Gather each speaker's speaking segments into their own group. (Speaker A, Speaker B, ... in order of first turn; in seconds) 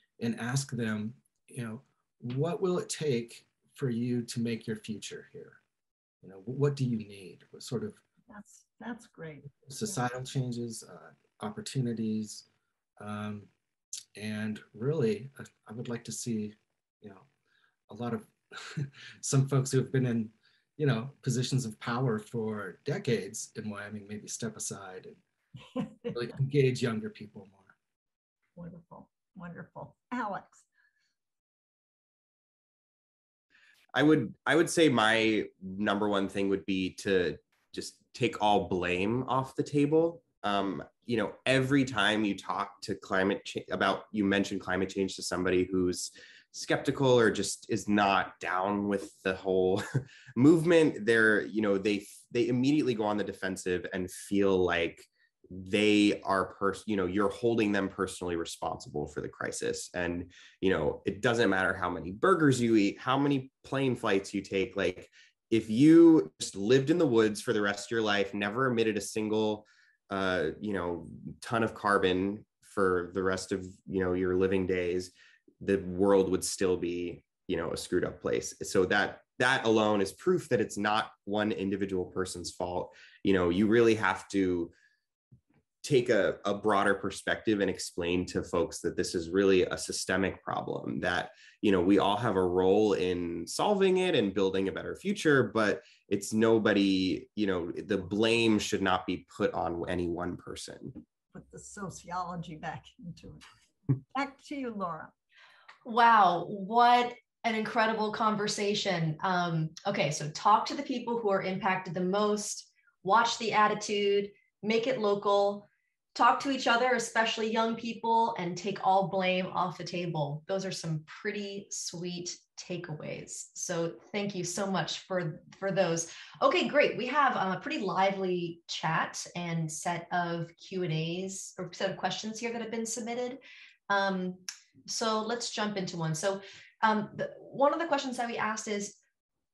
Speaker A: 0.2-5.6, 6.2-8.0, 9.7-12.5, 13.0-13.5, 14.2-17.3, 17.9-25.2, 26.1-27.7
Speaker B: 8.3-10.1, 25.7-26.2, 28.6-30.7, 101.3-103.4, 104.1-105.1
Speaker C: 33.9-49.8, 50.4-84.7, 85.8-101.0
Speaker D: 105.8-139.0